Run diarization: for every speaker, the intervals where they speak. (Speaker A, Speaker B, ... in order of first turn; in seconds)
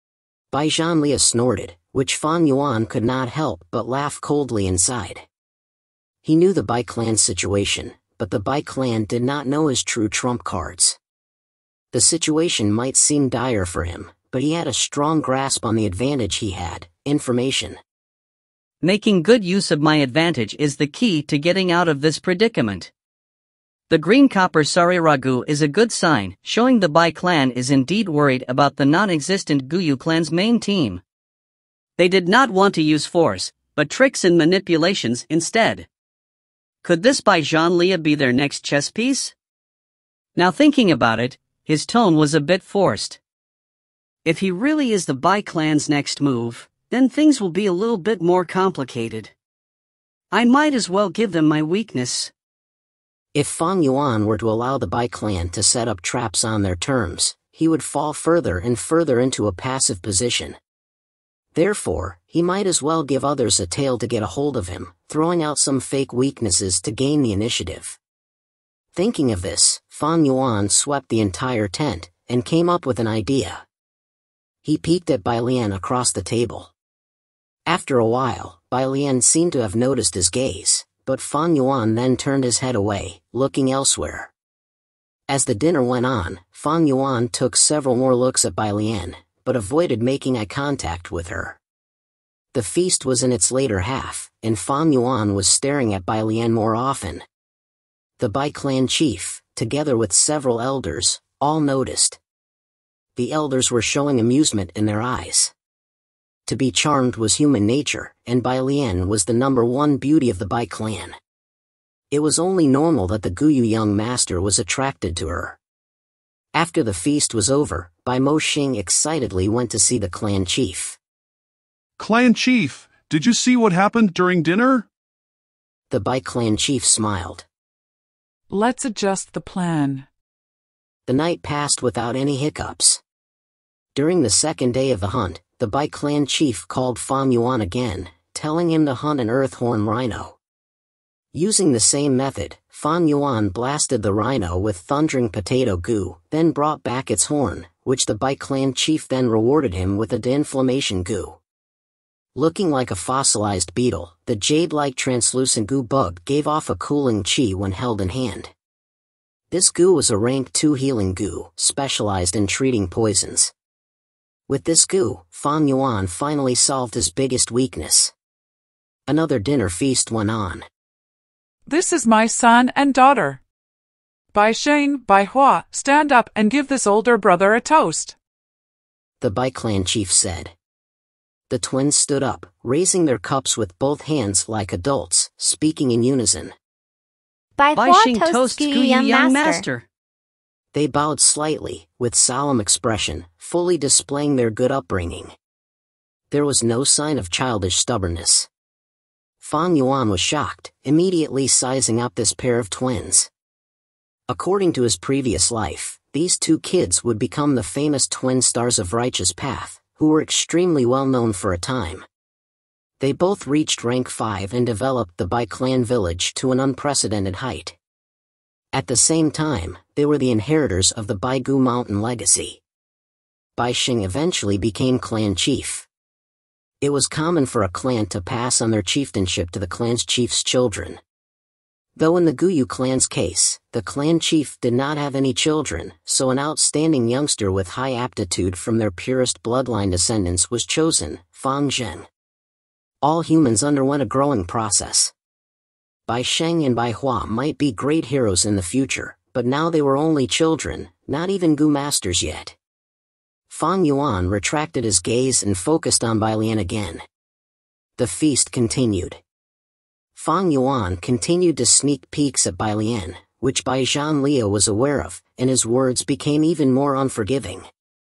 Speaker A: 0.5-5.2, 6.2-11.0, 11.9-17.8, 53.3-60.6, 61.5-68.0, 68.9-73.6, 74.6-76.7, 77.7-84.3, 85.3-91.6, 92.5-97.2, 98.2-102.2, 103.2-105.5, 106.5-111.2, 112.1-115.6, 116.5-121.0, 125.9-127.5, 131.1-133.0, 133.9-140.4, 141.3-151.4, 152.3-158.5, 159.5-163.5, 164.5-168.1, 169.1-170.7, 179.2-180.5, 181.5-186.5, 190.7-195.3, 196.3-198.5, 199.4-203.3, 204.3-212.1, 213.0-217.8, 218.7-222.6, 223.6-225.9, 226.8-231.0, 231.9-242.1, 243.0-245.1, 246.1-252.5, 253.5-257.0, 258.0-259.2, 260.1-267.7
Speaker B: 18.8-22.9, 23.9-31.0, 32.0-35.9, 36.8-39.3, 40.4-43.2, 44.2-49.3, 50.3-52.3, 187.7-189.8
Speaker C: 122.0-124.8
Speaker D: 128.5-130.1, 171.7-173.4, 174.3-178.1
Speaker E: 187.6-189.7